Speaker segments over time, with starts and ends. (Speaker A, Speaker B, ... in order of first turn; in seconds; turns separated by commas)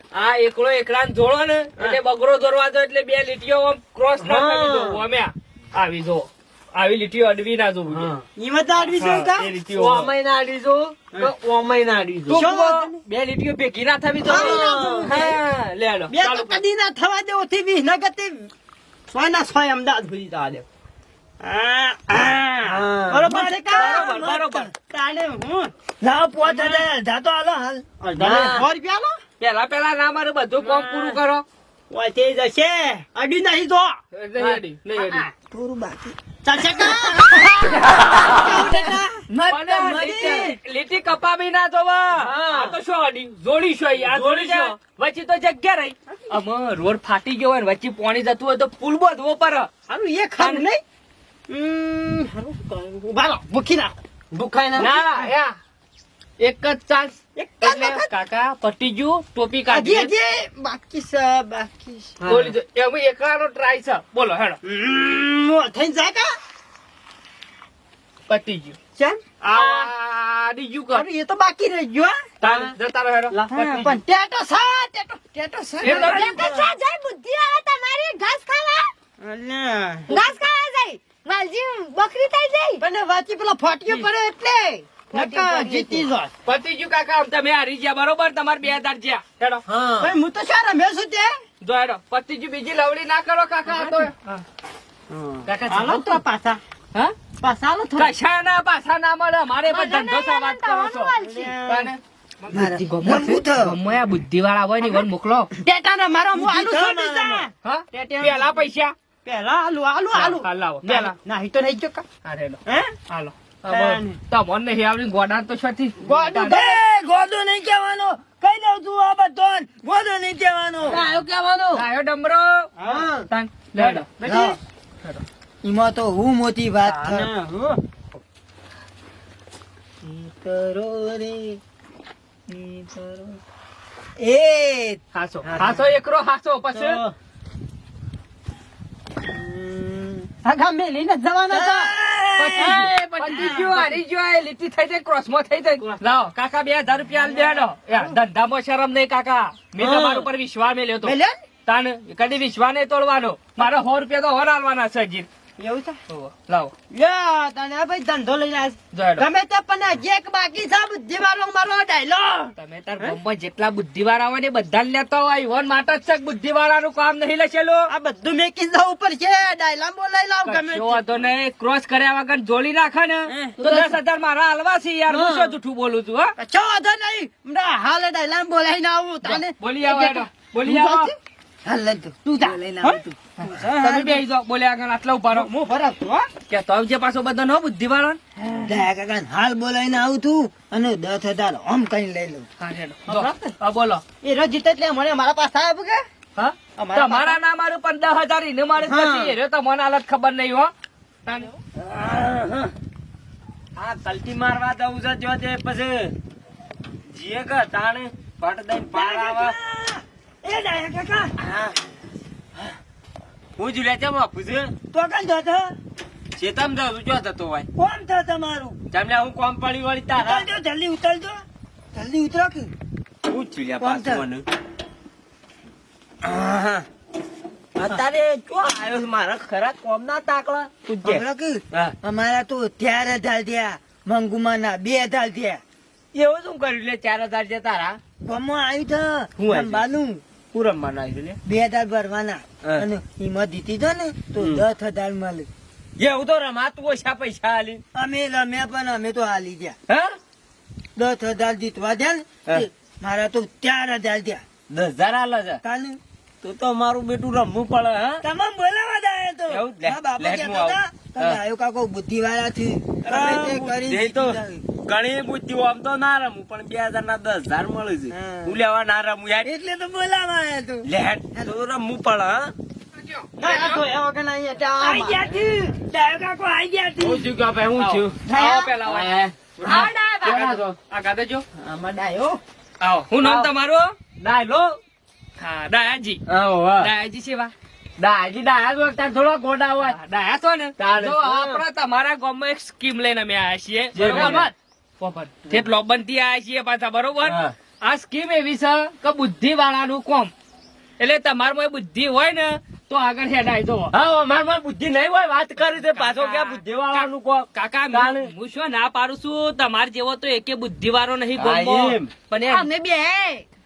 Speaker A: 0.1-8.1, Speaker B: 4.2-4.7, Speaker B: 7.9-8.2, Speaker C: 8.3-9.5, Speaker A: 8.9-10.1, Speaker B: 9.7-12.4, Speaker A: 12.3-16.6, Speaker C: 12.3-12.9, Speaker C: 14.2-15.4, Speaker B: 14.2-15.1, Speaker C: 16.1-18.5, Speaker C: 19.1-20.6, Speaker C: 21.4-25.7, Speaker B: 22.6-23.3, Speaker D: 22.7-24.6, Speaker A: 23.7-24.7, Speaker D: 26.0-28.6, Speaker C: 26.4-26.8, Speaker C: 28.0-29.2, Speaker B: 28.2-28.6, Speaker A: 29.4-31.4, Speaker C: 31.9-34.0, Speaker A: 34.1-35.2, Speaker C: 35.0-35.3, Speaker D: 35.5-36.1, Speaker C: 36.4-39.2, Speaker D: 36.7-37.1, Speaker D: 38.4-40.5, Speaker A: 39.5-49.7, Speaker C: 42.3-42.7, Speaker B: 44.0-44.7, Speaker C: 49.9-50.8, Speaker A: 50.4-50.7, Speaker C: 51.5-53.9, Speaker B: 54.3-54.9, Speaker C: 54.7-55.0, Speaker A: 54.8-55.5, Speaker A: 56.4-60.1, Speaker C: 57.4-58.1, Speaker C: 59.7-62.5, Speaker A: 62.2-64.6, Speaker C: 64.6-66.4, Speaker A: 68.3-68.8, Speaker C: 69.0-69.9, Speaker A: 69.5-71.0, Speaker C: 70.9-72.7, Speaker A: 72.4-74.0, Speaker C: 73.3-76.4, Speaker A: 75.8-76.6, Speaker E: 75.9-78.9, Speaker C: 79.2-80.1, Speaker A: 80.1-80.3, Speaker E: 80.1-82.8, Speaker C: 82.8-86.3, Speaker E: 85.1-86.1, Speaker A: 86.5-89.6, Speaker B: 89.7-90.1, Speaker C: 90.0-91.4, Speaker A: 91.6-94.4, Speaker A: 95.4-96.2, Speaker C: 95.7-96.6, Speaker C: 97.4-98.1, Speaker A: 98.0-101.1, Speaker E: 99.7-101.6, Speaker C: 101.2-101.9, Speaker A: 101.7-105.5, Speaker D: 102.5-103.8, Speaker C: 102.5-103.3, Speaker C: 105.6-108.5, Speaker D: 106.3-107.5, Speaker A: 107.6-108.9, Speaker C: 109.2-112.0, Speaker A: 110.1-111.2, Speaker A: 112.2-116.6, Speaker C: 112.7-112.9, Speaker C: 113.7-114.2, Speaker C: 116.0-116.8, Speaker D: 116.4-121.0, Speaker C: 120.8-121.8, Speaker A: 121.7-122.7, Speaker C: 122.8-123.3, Speaker A: 123.3-124.1, Speaker C: 123.8-124.5, Speaker D: 124.2-124.6, Speaker D: 125.6-127.3, Speaker C: 126.8-127.8, Speaker D: 130.0-131.6, Speaker C: 132.6-133.1, Speaker D: 134.2-135.0, Speaker A: 135.1-137.0, Speaker C: 135.5-135.8, Speaker C: 136.8-137.1, Speaker D: 139.4-140.1, Speaker C: 140.4-141.9, Speaker D: 141.5-143.7, Speaker A: 142.4-155.3, Speaker C: 142.6-143.8, Speaker C: 147.3-148.1, Speaker C: 149.8-150.3, Speaker C: 151.0-151.4, Speaker C: 155.6-156.0, Speaker A: 156.1-156.7, Speaker C: 156.9-163.2, Speaker A: 158.9-159.3, Speaker A: 162.6-167.9, Speaker C: 167.9-171.0, Speaker A: 170.4-176.3, Speaker C: 173.3-173.9, Speaker C: 175.1-175.6, Speaker C: 176.4-181.1, Speaker A: 179.2-181.1, Speaker D: 181.6-183.0, Speaker C: 182.2-184.2, Speaker A: 183.4-185.5, Speaker C: 185.3-186.3, Speaker A: 186.5-188.2, Speaker D: 188.6-192.4, Speaker A: 192.6-194.0, Speaker C: 193.1-193.5, Speaker C: 194.2-196.0, Speaker A: 196.3-200.7, Speaker C: 196.8-197.4, Speaker C: 198.8-199.3, Speaker A: 201.2-201.5, Speaker B: 201.8-202.7, Speaker B: 203.8-206.1, Speaker B: 207.1-209.6, Speaker D: 208.9-211.3, Speaker B: 211.4-211.7, Speaker B: 213.6-214.7, Speaker D: 214.9-215.7, Speaker B: 216.4-217.7, Speaker D: 217.8-218.8, Speaker B: 218.9-220.5, Speaker D: 220.1-221.4, Speaker D: 221.9-222.7, Speaker B: 223.3-224.4, Speaker D: 223.8-224.2, Speaker D: 226.2-226.8, Speaker B: 227.8-231.9, Speaker D: 231.0-235.6, Speaker B: 236.1-238.0, Speaker D: 238.2-240.2, Speaker B: 239.4-239.8, Speaker B: 240.5-241.4, Speaker D: 241.4-245.5, Speaker B: 244.4-244.6, Speaker B: 246.0-247.8, Speaker D: 247.9-249.7, Speaker B: 249.9-250.1, Speaker D: 250.9-254.4, Speaker B: 254.7-255.6, Speaker D: 255.6-256.0, Speaker B: 256.4-258.2, Speaker D: 258.2-264.6, Speaker B: 259.5-261.4, Speaker B: 263.0-269.5, Speaker D: 268.1-268.6, Speaker D: 269.4-271.5, Speaker B: 270.8-272.5, Speaker A: 273.1-273.8, Speaker C: 273.4-275.3, Speaker D: 274.8-277.3, Speaker B: 277.0-278.2, Speaker A: 277.8-281.4, Speaker C: 278.3-278.8, Speaker B: 278.9-280.7, Speaker E: 279.7-280.4, Speaker C: 281.6-282.4, Speaker A: 282.8-283.9, Speaker B: 283.2-283.5, Speaker B: 284.2-284.8, Speaker A: 285.4-286.2, Speaker B: 286.3-286.9, Speaker A: 286.8-287.5, Speaker B: 288.0-290.0, Speaker A: 289.8-300.3, Speaker B: 290.8-291.6, Speaker B: 293.9-294.5, Speaker B: 297.2-297.5, Speaker A: 301.0-303.9, Speaker B: 303.9-308.3, Speaker A: 305.8-312.7, Speaker B: 311.4-312.1, Speaker E: 312.5-313.4